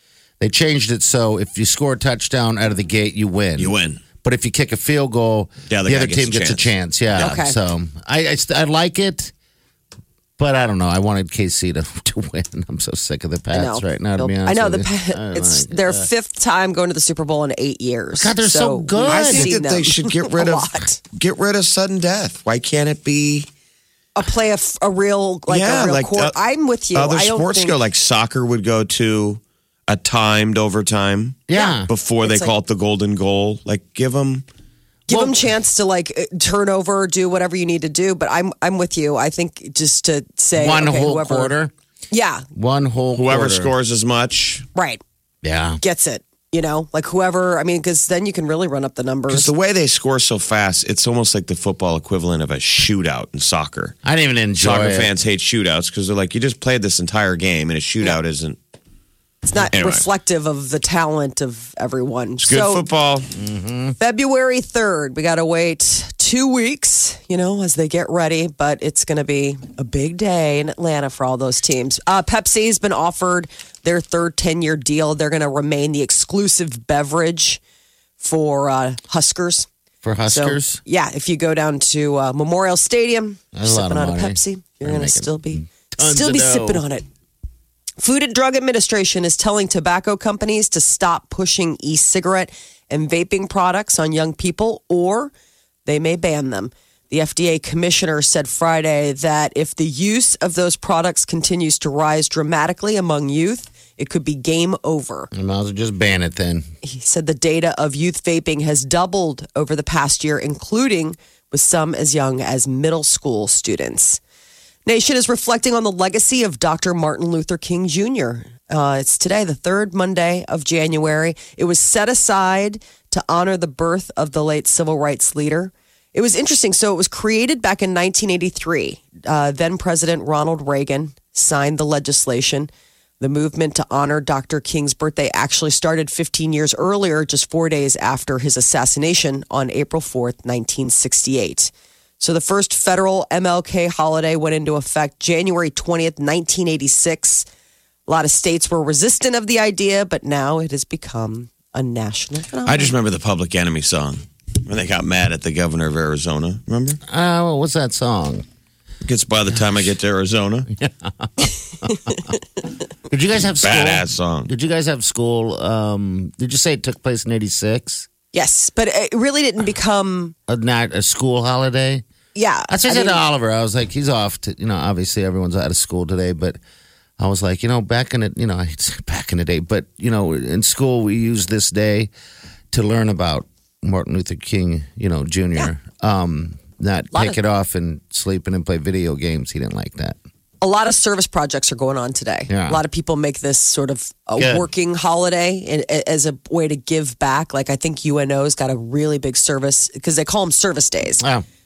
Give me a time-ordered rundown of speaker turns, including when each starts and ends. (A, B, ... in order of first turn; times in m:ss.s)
0:00.4-0:09.3 A
0:03.6-0:04.0 B
0:05.7-0:07.3 B
0:07.2-0:07.6 C
0:10.4-0:16.1 A
0:13.5-0:21.0 C
0:18.2-0:19.5 A
0:19.0-0:23.5 B
0:24.2-0:27.8 C
0:25.5-0:26.4 B
0:26.9-0:34.4 B
0:31.5-0:31.9 A
0:31.5-0:32.5 C
0:35.1-0:41.5 C
0:35.1-0:35.4 A
0:40.6-0:41.7 A
0:42.1-0:42.4 C
0:42.5-0:43.7 A
0:43.1-0:44.6 B
0:44.7-0:45.0 C
0:45.4-0:45.8 A
0:45.8-0:49.5 C
0:49.3-0:54.0 B
0:54.0-0:55.1 A
0:54.6-0:58.6 B
0:59.4-1:02.8 C
0:59.7-1:00.0 B
1:02.4-1:03.3 B
1:03.4-1:04.0 A
1:04.0-1:17.6 C
1:18.2-1:19.7 C
1:20.0-1:20.8 A
1:20.2-1:27.0 C
1:23.5-1:26.8 A
1:28.0-1:35.3 C
1:35.8-1:45.3 C
1:45.3-1:46.7 A
1:46.8-1:54.2 C
1:54.8-2:27.4 C
2:28.1-2:32.9 C
2:32.6-2:37.0 B
2:37.1-2:38.4 A
2:39.0-2:40.7 B
2:40.7-2:42.2 A
2:43.1-2:48.1 A
2:43.6-2:44.5 B
2:48.3-2:50.3 C
2:50.5-2:52.0 A
2:52.3-2:53.2 C
2:52.7-2:56.6 A
2:57.2-3:02.1 A
3:02.7-3:10.2 A
3:07.1-3:07.4 C
3:10.6-3:21.2 C
3:12.5-3:12.8 A
3:14.4-3:14.6 A
3:21.2-3:21.4 A